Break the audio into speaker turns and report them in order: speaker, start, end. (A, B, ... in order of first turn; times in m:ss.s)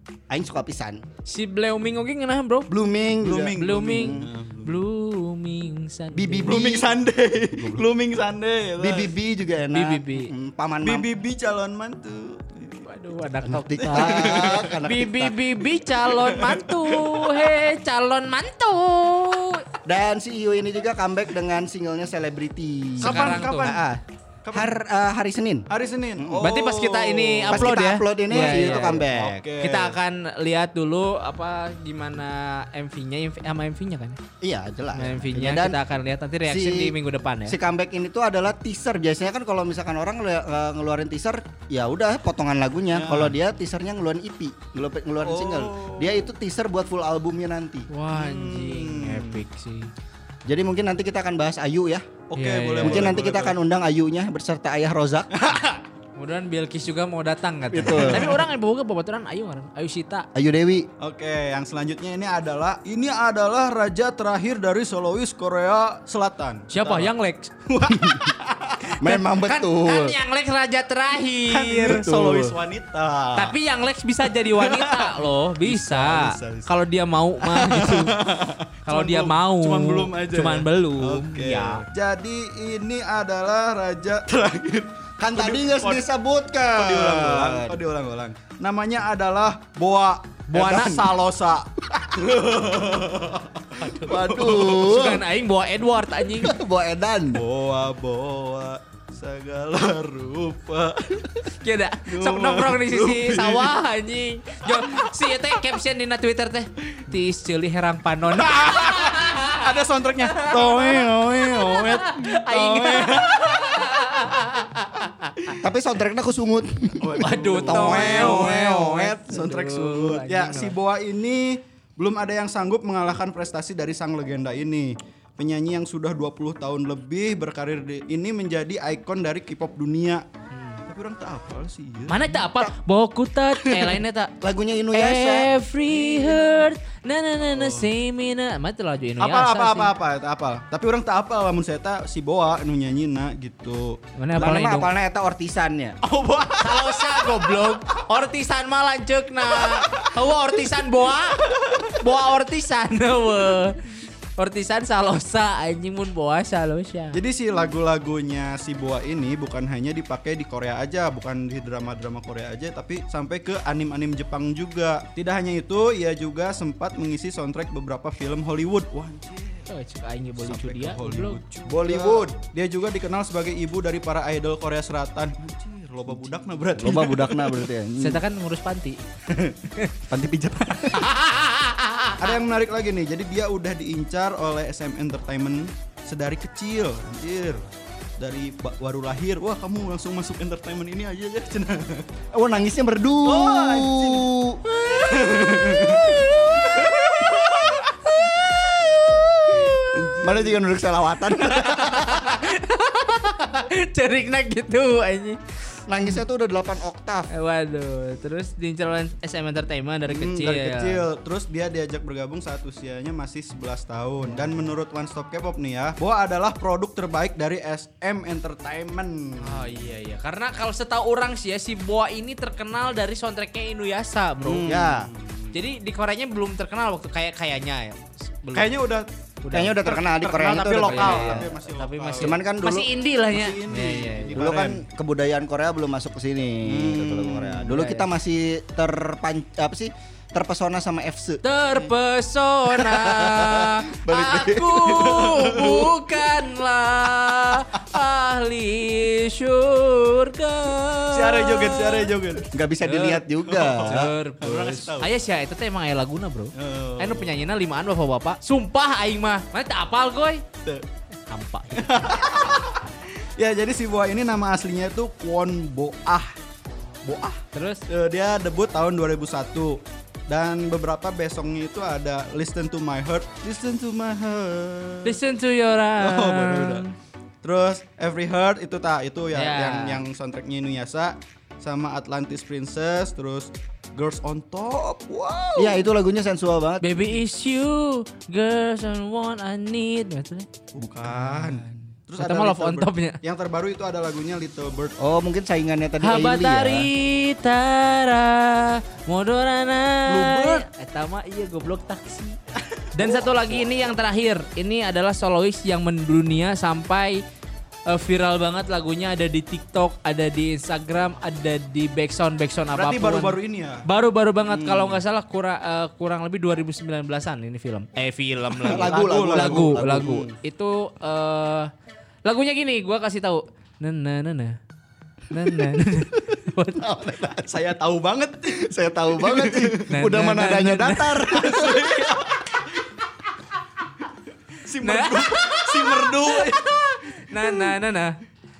0:00.3-0:01.0 A
0:01.2-0:02.7 B
0:02.7-0:04.3 A
0:03.2-0:04.8 C
0:03.6-0:06.6 B
0:06.1-0:06.9 A
0:06.4-0:09.1 C
0:07.6-0:07.8 A
0:08.8-0:11.1 A
0:09.7-0:10.3 B
0:10.8-0:12.9 C
0:12.8-0:19.6 B
0:13.5-0:15.4 A
0:13.8-0:14.8 C
0:16.1-0:17.4 C
0:19.8-0:24.0 A
0:23.0-0:23.8 C
0:23.0-0:23.8 B
0:24.4-0:24.7 C
0:24.5-0:26.4 A
0:25.7-0:30.0 C
0:26.4-0:29.0 B
0:27.5-0:29.4 A
0:29.6-0:34.2 B
0:34.4-0:35.8 A
0:34.9-0:37.6 B
0:36.5-0:36.9 A
0:37.4-0:47.9 A
0:42.9-0:43.4 C
0:45.2-0:46.3 C
0:47.9-0:49.9 B
0:48.1-0:49.4 C
0:50.4-0:52.0 A
0:52.3-0:53.6 C
0:52.3-0:53.1 B
0:52.8-0:55.3 A
0:55.3-0:55.8 C
0:56.2-1:00.3 B
0:57.7-0:58.3 A
0:57.9-0:58.4 C
1:00.3-1:00.9 A
1:01.0-1:07.1 C
1:06.7-1:07.5 B
1:07.6-1:08.9 C
1:09.0-1:10.2 A
1:09.0-1:12.1 B
1:11.5-1:13.6 C
1:11.9-1:12.5 A
1:13.4-1:18.2 B
1:14.5-1:16.7 C
1:17.4-1:26.1 C
1:18.8-1:21.8 B
1:25.2-1:27.8 A
1:26.7-1:35.1 C
1:30.5-1:31.1 B
1:34.0-1:35.2 A
1:34.8-1:36.5 B
1:36.4-1:37.4 A
1:37.3-1:41.5 C
1:41.6-1:49.6 B
1:42.1-1:43.8 C
1:48.3-1:54.0 C
1:50.3-1:55.5 B
1:55.6-1:59.4 A
1:57.0-2:10.2 C
1:57.2-2:00.8 B
2:10.5-2:10.8 B
2:10.8-2:12.4 C
2:12.1-2:14.3 B
2:13.6-2:14.0 C
2:14.4-2:15.5 A
2:14.9-2:19.9 B
2:15.9-2:16.5 C
2:17.5-2:17.9 C
2:19.2-2:24.0 C
2:24.2-2:24.9 B
2:24.4-2:25.9 A
2:26.0-2:28.0 C
2:26.6-2:37.2 B
2:29.5-2:30.1 C
2:31.5-2:32.0 C
2:37.1-2:49.7 C
2:49.7-2:51.6 B
2:50.4-2:57.7 C
2:51.7-2:52.3 A
2:56.8-2:58.2 A
2:58.0-2:59.0 B
3:00.1-3:01.1 A
3:00.9-3:02.3 B
3:02.2-3:07.6 C
3:08.2-3:12.1 C
3:12.3-3:14.6 A
3:13.2-3:14.3 C
3:14.7-3:20.1 B
3:14.9-3:17.8 C
3:19.9-3:20.4 C
3:20.2-3:22.3 A
3:21.5-3:25.4 B
3:25.9-3:27.3 A
3:27.3-3:31.0 B
3:30.1-3:39.7 C
3:39.4-3:44.8 B
3:44.4-3:45.6 C
3:44.6-3:45.1 A
3:45.5-3:48.7 B
3:48.5-3:49.1 C
3:49.4-3:49.9 B
3:49.5-3:51.5 A
3:49.8-3:52.4 C
3:50.7-3:54.5 B
3:52.2-3:52.9 A
3:53.3-3:54.8 C
3:54.3-4:01.4 A
3:56.6-3:57.8 C
3:57.7-3:58.1 B
4:01.4-4:12.2 B
4:03.1-4:05.2 A
4:04.8-4:06.0 C
4:11.1-4:12.5 C
4:12.5-4:14.1 A
4:12.8-4:20.4 B
4:13.5-4:15.1 C
4:16.5-4:17.3 C
4:21.3-4:22.1 B
4:21.7-4:26.4 C
4:27.0-4:35.2 C
4:27.5-4:27.8 B
4:35.0-4:36.9 B
4:36.0-4:36.8 C
4:37.4-4:45.9 C
4:39.3-4:40.0 B
4:45.6-4:46.9 A
4:46.8-4:50.5 B
4:50.7-4:55.0 C
4:51.3-4:51.6 B
4:52.2-4:53.2 B
4:55.0-4:56.9 A
4:56.0-5:02.4 B
5:00.1-5:00.6 A
5:02.6-5:03.9 C
5:02.9-5:07.2 B
5:07.9-5:21.7 B
5:12.7-5:13.8 C
5:14.4-5:15.0 C
5:18.6-5:20.2 C
5:18.7-5:20.3 A
5:22.2-5:24.6 B
5:25.3-5:26.9 B
5:26.8-5:27.5 A
5:27.4-5:29.9 C
5:28.6-5:31.7 A
5:29.9-5:32.1 B
5:31.3-5:32.9 C
5:34.6-5:36.7 C
5:34.8-5:38.2 B